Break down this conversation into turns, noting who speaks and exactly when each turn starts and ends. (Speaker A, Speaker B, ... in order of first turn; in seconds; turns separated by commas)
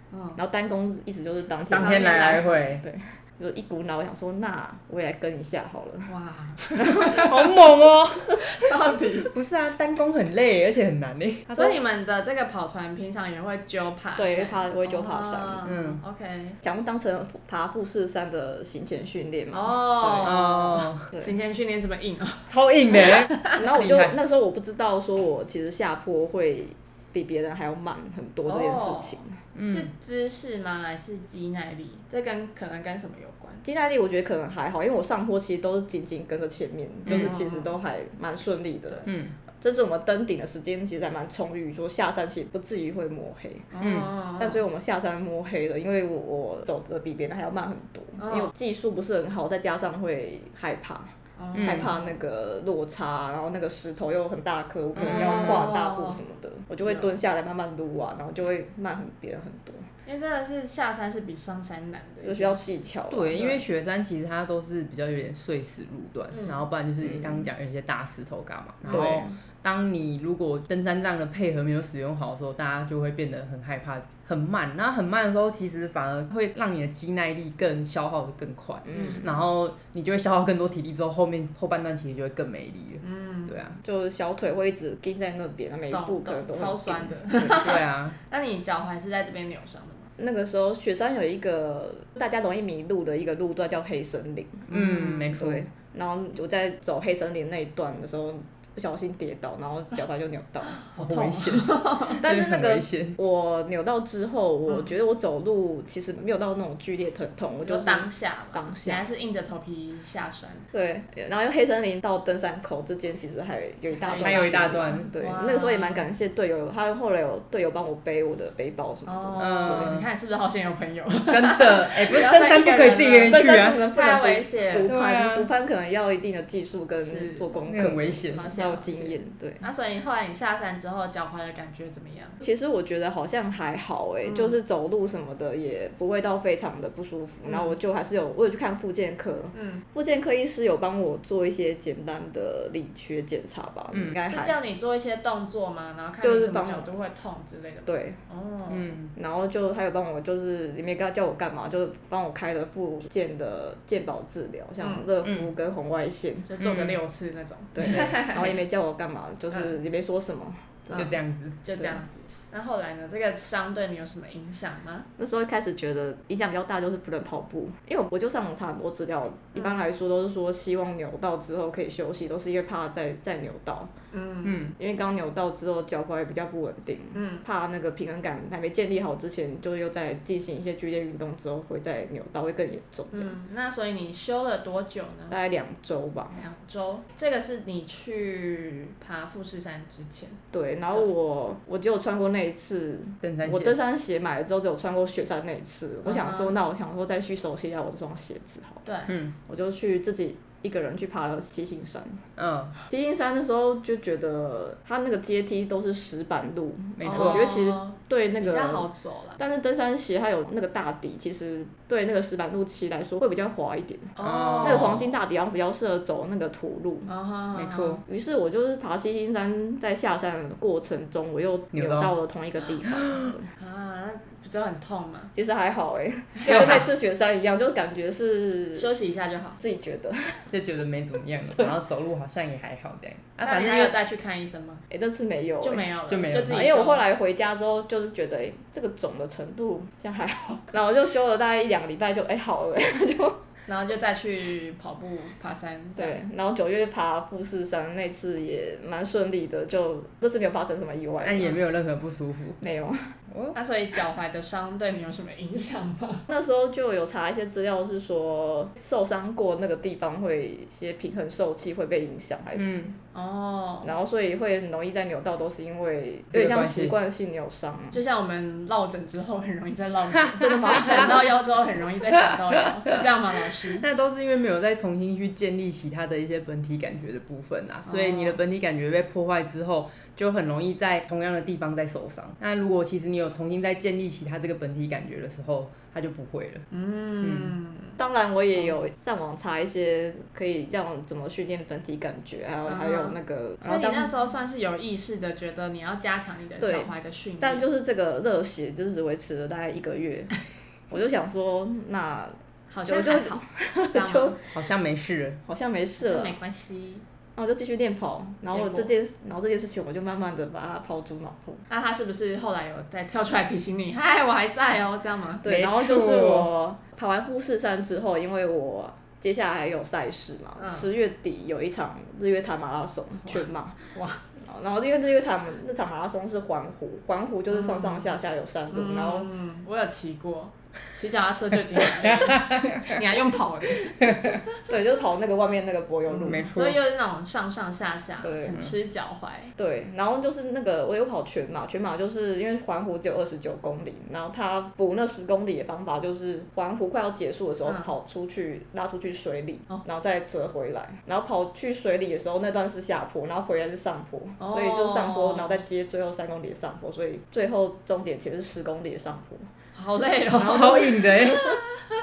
Speaker A: 0.1-0.4, Speaker B: 0.4-6.1, Speaker C: 1.7-2.8, Speaker A: 1.7-2.5, Speaker A: 6.1-7.4, Speaker B: 6.7-8.4, Speaker C: 7.0-8.5, Speaker A: 8.4-9.3, Speaker C: 9.2-11.8, Speaker A: 11.5-16.6, Speaker B: 14.2-15.7, Speaker C: 15.7-16.0, Speaker B: 16.6-21.3, Speaker A: 19.5-23.6, Speaker C: 20.2-21.1, Speaker C: 22.5-24.1, Speaker B: 23.6-29.4, Speaker A: 28.5-33.6, Speaker C: 29.5-29.9, Speaker B: 33.6-39.1, Speaker A: 37.1-37.7, Speaker C: 37.1-37.3, Speaker C: 39.0-39.3, Speaker B: 39.6-43.7, Speaker A: 43.7-44.6, Speaker C: 43.8-44.1, Speaker B: 44.4-59.9, Speaker A: 48.2-48.5, Speaker A: 51.4-52.0, Speaker C: 51.5-51.9, Speaker A: 54.9-56.2, Speaker A: 56.8-57.1, Speaker A: 60.0-62.8, Speaker B: 62.2-63.6, Speaker C: 63.1-83.8, Speaker A: 66.3-66.6, Speaker B: 67.0-67.5, Speaker A: 68.9-69.2, Speaker B: 68.9-69.3, Speaker B: 78.9-79.3, Speaker A: 78.9-79.2, Speaker A: 83.0-83.7, Speaker B: 83.8-87.6, Speaker A: 85.9-90.1, Speaker C: 87.4-88.2, Speaker B: 90.2-94.7, Speaker C: 94.7-95.6, Speaker A: 94.7-95.3, Speaker B: 95.3-100.8, Speaker A: 100.7-102.2, Speaker C: 101.0-103.2, Speaker B: 102.2-109.0, Speaker A: 107.6-110.7, Speaker B: 110.7-119.9, Speaker A: 114.0-116.0, Speaker C: 114.1-115.1, Speaker A: 119.0-124.9, Speaker C: 119.4-120.1, Speaker C: 121.3-123.8, Speaker B: 123.2-129.6, Speaker C: 124.9-125.5, Speaker A: 127.0-127.6, Speaker C: 127.7-128.4, Speaker A: 128.3-132.4, Speaker B: 132.4-144.6, Speaker A: 134.2-134.5, Speaker A: 137.5-137.7, Speaker A: 139.5-139.8, Speaker A: 144.3-149.0, Speaker B: 146.2-146.9, Speaker B: 147.9-148.2, Speaker C: 148.7-149.1, Speaker B: 149.1-156.5, Speaker A: 154.8-155.1, Speaker A: 156.5-158.5, Speaker C: 156.6-157.0, Speaker B: 157.7-161.1, Speaker A: 160.9-165.1, Speaker C: 160.9-161.6, Speaker B: 165.2-173.9, Speaker A: 169.5-169.8, Speaker A: 174.1-174.7, Speaker C: 174.4-174.7, Speaker B: 174.8-183.3, Speaker A: 177.1-177.4, Speaker A: 183.1-185.4, Speaker B: 185.3-186.4, Speaker A: 186.3-190.4, Speaker B: 190.5-198.8, Speaker C: 193.2-193.8, Speaker A: 196.0-196.6, Speaker A: 198.8-199.1, Speaker C: 199.1-199.3, Speaker B: 199.4-202.2, Speaker C: 202.4-202.7, Speaker B: 202.9-217.1, Speaker C: 207.0-207.5, Speaker A: 207.1-209.4, Speaker A: 214.2-215.1, Speaker C: 214.2-215.0, Speaker A: 217.1-218.0, Speaker C: 217.5-218.0, Speaker B: 218.1-223.5, Speaker C: 221.7-222.1, Speaker C: 222.9-223.3, Speaker A: 223.6-225.3, Speaker B: 225.3-228.9, Speaker A: 226.3-226.9, Speaker C: 226.4-226.8, Speaker A: 228.7-229.6, Speaker B: 229.6-230.4, Speaker C: 230.5-233.9, Speaker A: 233.4-234.8, Speaker B: 234.9-235.8, Speaker A: 235.6-237.0, Speaker C: 236.1-236.7, Speaker B: 236.5-243.4, Speaker A: 243.7-246.2, Speaker B: 246.0-251.6, Speaker C: 251.2-252.6, Speaker B: 252.6-253.1, Speaker C: 253.3-253.6, Speaker A: 253.5-256.2, Speaker B: 256.3-262.8, Speaker C: 262.5-262.9, Speaker A: 263.1-263.9, Speaker B: 263.8-268.0, Speaker C: 266.3-266.9, Speaker A: 267.9-273.8, Speaker B: 270.4-271.3, Speaker C: 270.4-271.2, Speaker C: 272.3-273.0, Speaker C: 273.8-286.6, Speaker A: 277.8-278.4, Speaker A: 286.7-288.0, Speaker C: 287.2-287.5, Speaker B: 288.0-294.1, Speaker A: 292.6-297.6, Speaker B: 296.6-300.3, Speaker B: 300.9-302.3, Speaker A: 302.7-303.4, Speaker B: 302.9-304.5, Speaker A: 303.9-304.4, Speaker C: 304.5-305.4, Speaker B: 305.4-306.4, Speaker A: 306.0-307.0, Speaker B: 307.4-311.6, Speaker A: 308.5-308.9, Speaker A: 311.7-315.4, Speaker C: 315.4-316.5, Speaker B: 315.4-323.8, Speaker A: 320.6-320.9, Speaker A: 323.9-324.2, Speaker B: 324.4-329.3, Speaker A: 327.5-328.1, Speaker A: 328.7-334.5, Speaker C: 332.0-333.0, Speaker C: 334.0-334.3, Speaker B: 334.6-336.5, Speaker A: 336.1-339.5, Speaker C: 336.2-336.8, Speaker B: 338.2-338.7, Speaker B: 339.6-359.5, Speaker A: 347.6-347.9, Speaker A: 354.4-355.6, Speaker A: 359.7-361.8, Speaker C: 360.4-361.5, Speaker B: 360.4-361.4